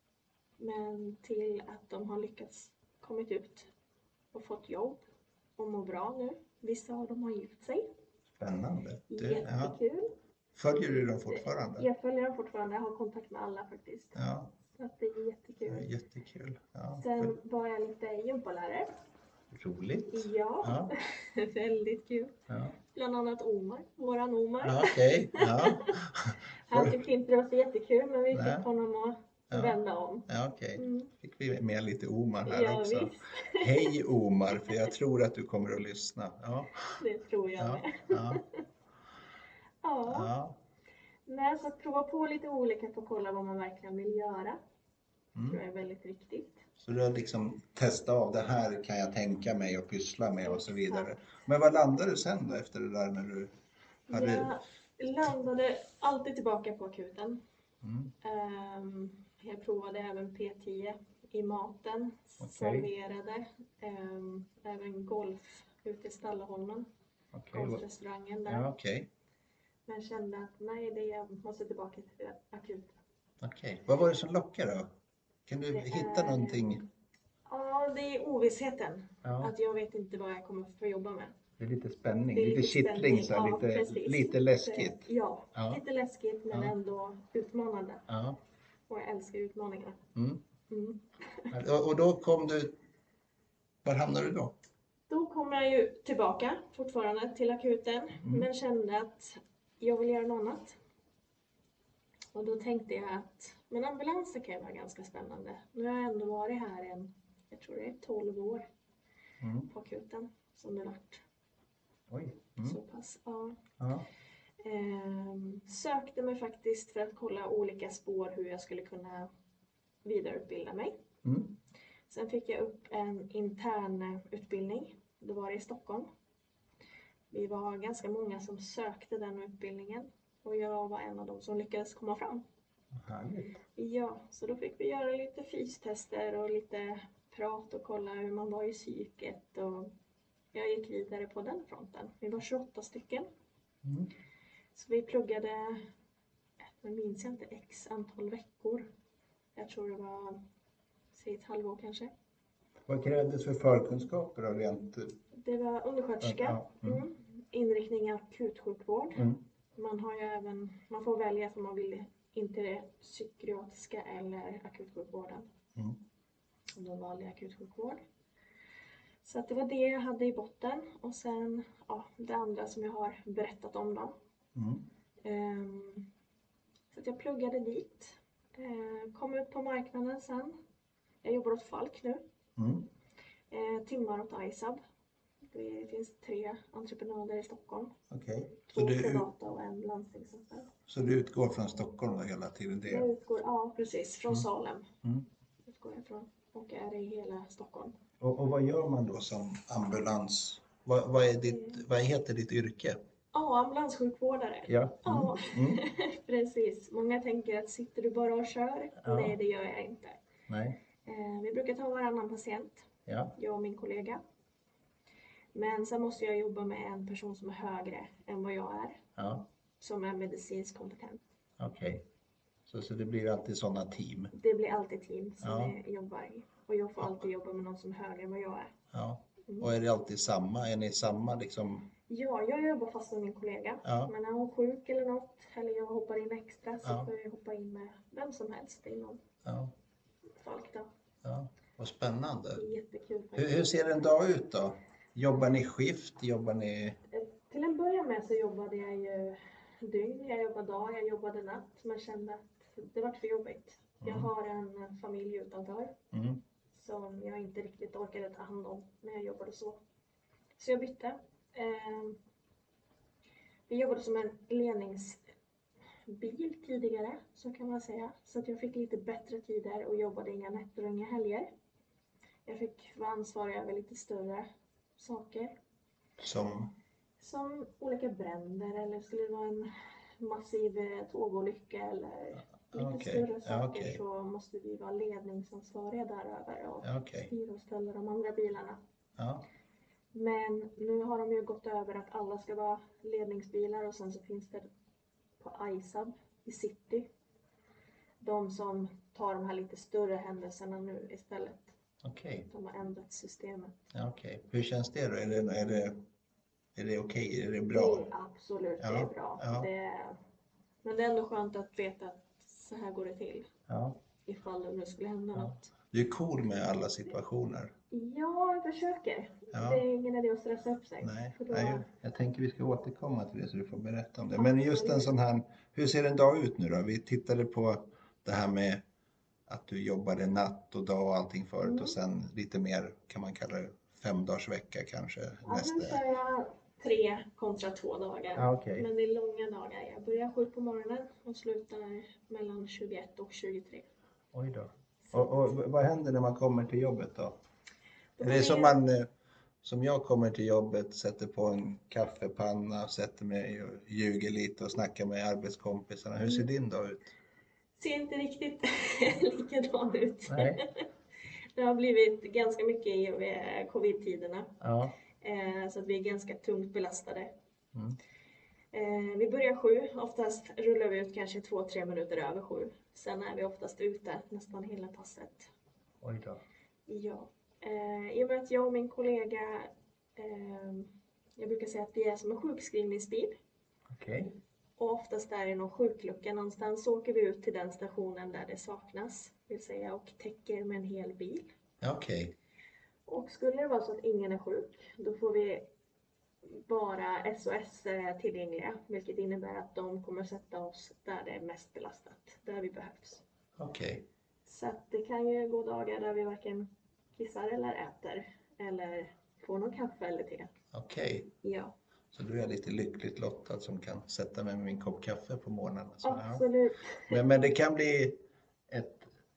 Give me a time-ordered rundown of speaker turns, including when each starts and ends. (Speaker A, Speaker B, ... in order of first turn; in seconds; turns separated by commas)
Speaker A: 0.6-3.7, Speaker A: 4.3-5.0, Speaker A: 5.6-7.9, Speaker B: 8.3-9.8, Speaker A: 9.1-10.1, Speaker B: 10.5-11.9, Speaker A: 11.3-15.9, Speaker B: 14.1-14.5, Speaker B: 15.7-17.3, Speaker A: 16.9-18.9, Speaker B: 19.5-20.9, Speaker A: 20.1-22.3, Speaker B: 22.5-22.8, Speaker A: 22.9-26.0, Speaker B: 24.6-27.0, Speaker A: 26.6-31.1, Speaker B: 28.3-28.7, Speaker B: 29.5-36.8, Speaker A: 32.5-33.9, Speaker A: 37.0-38.6, Speaker B: 37.6-38.4, Speaker A: 39.8-40.3, Speaker B: 40.1-40.6, Speaker A: 41.2-44.6, Speaker A: 45.4-46.6, Speaker B: 46.8-53.5, Speaker A: 50.4-51.2, Speaker A: 54.1-57.4, Speaker B: 54.1-54.5, Speaker B: 57.8-58.1, Speaker A: 58.2-66.9, Speaker B: 62.4-62.9, Speaker B: 67.3-67.8, Speaker A: 67.5-68.7, Speaker B: 68.5-69.1, Speaker A: 69.9-73.0, Speaker B: 73.4-74.9, Speaker B: 75.5-76.8, Speaker A: 75.7-76.7, Speaker A: 77.5-81.4, Speaker B: 79.2-79.5, Speaker B: 81.6-85.8, Speaker A: 82.3-88.0, Speaker B: 88.1-88.4, Speaker A: 88.9-90.0, Speaker B: 90.1-90.4, Speaker A: 90.7-91.5, Speaker B: 91.5-92.7, Speaker B: 93.8-94.5, Speaker A: 95.1-100.8, Speaker B: 98.2-98.5, Speaker A: 102.3-108.7, Speaker B: 109.4-109.7, Speaker A: 109.7-111.2, Speaker B: 112.1-112.8, Speaker A: 112.6-113.6, Speaker B: 113.8-114.1, Speaker A: 114.6-119.3, Speaker A: 120.0-121.0, Speaker B: 121.2-121.6, Speaker A: 122.1-126.1, Speaker A: 127.3-132.4, Speaker B: 132.9-133.6, Speaker A: 133.8-139.9, Speaker A: 140.5-143.3, Speaker B: 143.8-144.1, Speaker A: 144.7-145.9, Speaker A: 146.7-148.9, Speaker A: 149.6-150.4, Speaker A: 151.1-152.1, Speaker B: 152.8-155.2, Speaker A: 155.3-165.5, Speaker B: 156.2-157.0, Speaker B: 159.1-159.4, Speaker B: 165.7-166.0, Speaker A: 166.8-168.0, Speaker A: 169.2-174.1, Speaker B: 174.5-174.9, Speaker A: 175.2-176.1, Speaker A: 176.9-180.6, Speaker A: 181.2-182.2, Speaker B: 182.6-182.9, Speaker A: 183.5-184.8, Speaker A: 185.4-187.9, Speaker B: 188.1-189.3, Speaker A: 188.7-190.7, Speaker B: 190.9-193.1, Speaker A: 192.8-194.9, Speaker B: 195.0-195.3, Speaker A: 195.7-197.9, Speaker B: 198.2-203.0, Speaker A: 201.5-201.8, Speaker A: 203.3-210.2, Speaker B: 204.7-205.8, Speaker B: 209.0-209.3, Speaker B: 210.5-210.8, Speaker A: 211.0-214.2, Speaker B: 213.1-213.3, Speaker A: 215.5-219.0, Speaker B: 219.2-219.5, Speaker A: 219.8-221.2, Speaker B: 221.6-222.1, Speaker B: 222.7-224.3, Speaker A: 224.3-228.7, Speaker B: 225.4-225.7, Speaker B: 228.9-231.9, Speaker A: 232.1-239.2, Speaker B: 233.8-234.1, Speaker B: 236.8-237.1, Speaker B: 239.4-239.7, Speaker A: 240.4-240.9, Speaker B: 241.2-242.6, Speaker A: 242.5-243.8, Speaker B: 243.3-247.0, Speaker A: 247.1-255.9, Speaker B: 254.0-254.3, Speaker B: 256.1-256.4, Speaker A: 256.7-259.8, Speaker A: 260.6-262.2, Speaker A: 263.7-265.2, Speaker A: 266.1-271.5, Speaker A: 272.4-275.6, Speaker B: 276.2-276.7, Speaker A: 277.2-288.8, Speaker B: 282.6-284.0, Speaker B: 286.8-287.3, Speaker B: 289.1-289.5, Speaker A: 290.1-294.7, Speaker A: 295.4-297.1, Speaker A: 298.2-301.7, Speaker B: 302.0-302.5, Speaker A: 302.5-303.8, Speaker B: 303.9-306.0, Speaker B: 306.7-308.1, Speaker A: 307.7-310.2, Speaker B: 308.8-309.7, Speaker A: 310.8-313.5, Speaker B: 313.7-314.0, Speaker A: 314.2-315.7, Speaker B: 315.3-317.7, Speaker A: 317.9-321.9, Speaker B: 319.5-319.8, Speaker B: 321.0-328.8, Speaker A: 324.4-325.1, Speaker B: 329.5-336.0, Speaker A: 331.6-331.9, Speaker A: 335.4-343.9, Speaker B: 338.3-338.9, Speaker B: 344.3-347.4, Speaker A: 348.2-348.8, Speaker B: 348.2-349.1, Speaker B: 349.6-357.1, Speaker A: 357.8-360.9, Speaker B: 360.3-360.6, Speaker A: 361.5-364.6, Speaker B: 364.6-365.0, Speaker A: 365.2-367.3, Speaker A: 368.7-375.5, Speaker B: 376.0-376.4, Speaker A: 376.9-383.4, Speaker B: 383.9-384.4, Speaker A: 384.8-391.5, Speaker B: 391.8-392.3, Speaker A: 393.1-395.7, Speaker A: 396.5-403.2, Speaker B: 403.6-404.1, Speaker A: 404.4-410.5, Speaker B: 410.7-411.3, Speaker A: 411.4-411.7, Speaker B: 412.1-416.4, Speaker A: 416.0-417.2, Speaker B: 417.1-418.2, Speaker B: 418.7-419.1